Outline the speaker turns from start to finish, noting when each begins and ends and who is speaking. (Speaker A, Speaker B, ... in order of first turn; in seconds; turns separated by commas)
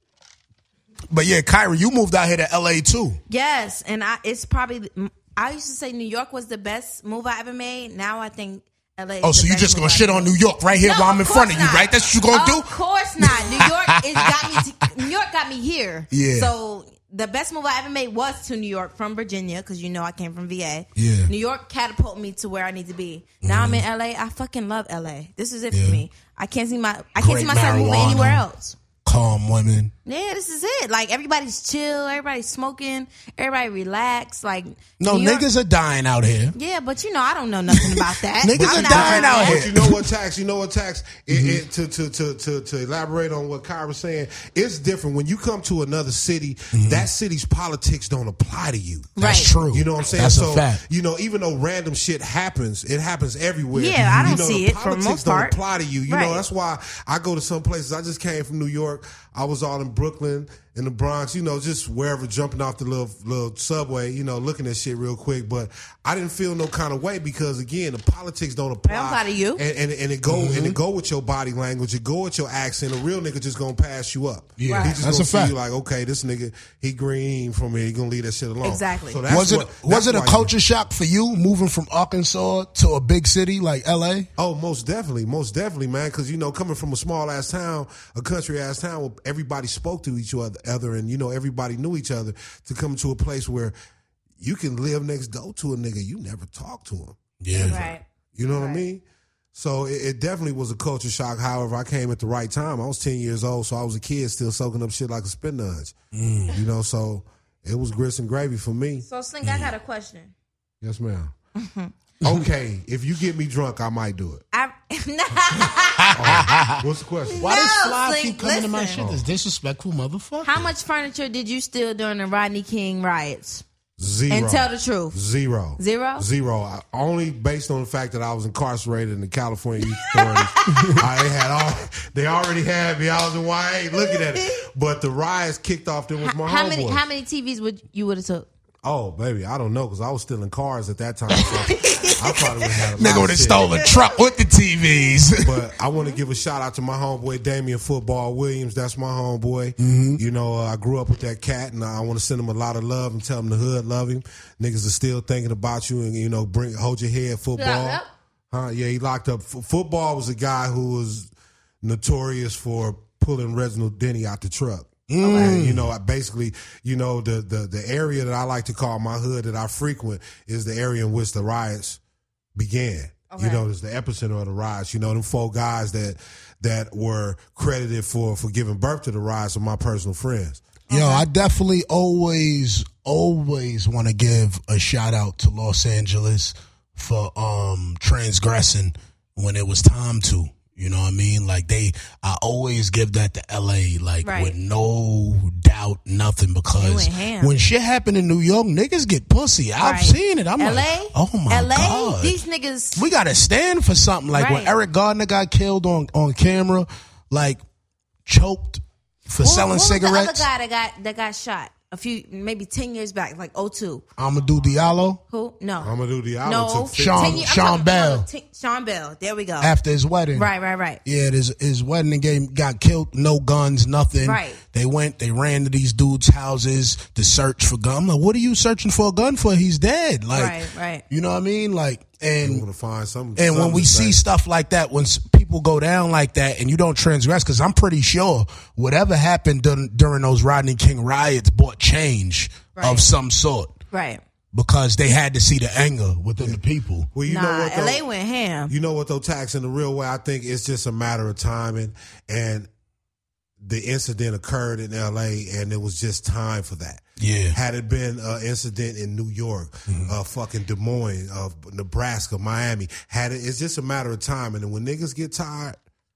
Speaker A: 1.1-3.2, Speaker B: 3.3-28.8, Speaker A: 9.2-14.9, Speaker A: 16.1-16.5, Speaker A: 21.0-21.3, Speaker A: 23.4-23.8, Speaker A: 25.7-26.0, Speaker A: 27.2-28.4, Speaker A: 29.0-29.9, Speaker B: 30.1-35.5, Speaker A: 35.0-36.6, Speaker B: 36.5-39.6, Speaker A: 37.7-40.1, Speaker C: 38.5-80.5, Speaker A: 41.3-41.6, Speaker A: 46.7-47.1, Speaker A: 49.2-50.8, Speaker B: 49.2-49.5, Speaker B: 53.7-55.6, Speaker A: 54.0-54.3, Speaker B: 56.1-56.4, Speaker B: 68.9-69.6, Speaker A: 70.3-70.8, Speaker A: 74.6-75.5, Speaker B: 74.7-75.0, Speaker B: 78.6-79.2, Speaker A: 79.3-84.3, Speaker C: 84.4-93.8, Speaker C: 94.4-105.9, Speaker A: 97.4-97.9, Speaker B: 97.5-98.8, Speaker A: 106.1-106.5, Speaker C: 106.5-109.1, Speaker B: 109.1-110.3, Speaker A: 109.4-109.7, Speaker C: 110.8-111.3, Speaker B: 111.6-111.9, Speaker C: 112.2-114.4, Speaker B: 114.5-116.6, Speaker A: 116.0-116.8, Speaker C: 116.1-117.5, Speaker A: 117.4-120.7, Speaker B: 117.4-119.0, Speaker C: 119.0-119.2, Speaker B: 120.4-123.6, Speaker C: 124.0-137.0, Speaker B: 124.3-125.2, Speaker B: 125.8-126.3, Speaker B: 129.8-130.8, Speaker A: 130.7-131.0, Speaker B: 134.0-134.5, Speaker B: 136.2-138.5, Speaker C: 138.8-143.7, Speaker B: 141.3-142.8, Speaker A: 143.0-145.5, Speaker B: 143.6-143.9, Speaker C: 145.4-161.3, Speaker A: 149.8-150.2, Speaker B: 157.6-158.1, Speaker C: 161.8-172.0, Speaker A: 165.1-165.9, Speaker B: 165.2-165.6, Speaker C: 172.6-180.7, Speaker B: 173.3-173.6, Speaker B: 180.9-181.3, Speaker A: 180.9-202.4, Speaker B: 194.2-194.6, Speaker B: 196.8-197.5, Speaker B: 199.8-203.0, Speaker A: 202.9-207.6, Speaker B: 204.3-204.8, Speaker A: 208.2-210.5, Speaker B: 209.4-214.0, Speaker A: 214.2-215.2, Speaker B: 215.3-215.9, Speaker C: 215.8-217.5, Speaker B: 216.4-219.8, Speaker A: 217.0-218.3, Speaker A: 219.6-220.5, Speaker B: 220.3-221.0, Speaker A: 221.1-230.6, Speaker B: 224.2-224.6, Speaker B: 230.3-231.0, Speaker A: 231.1-232.6, Speaker C: 232.4-234.2, Speaker A: 233.4-243.7, Speaker B: 242.8-243.1, Speaker B: 243.9-244.2, Speaker A: 244.5-247.1, Speaker C: 247.1-248.0, Speaker B: 247.3-248.7, Speaker C: 248.7-252.7, Speaker C: 253.6-265.8, Speaker A: 257.2-257.6, Speaker A: 259.9-260.1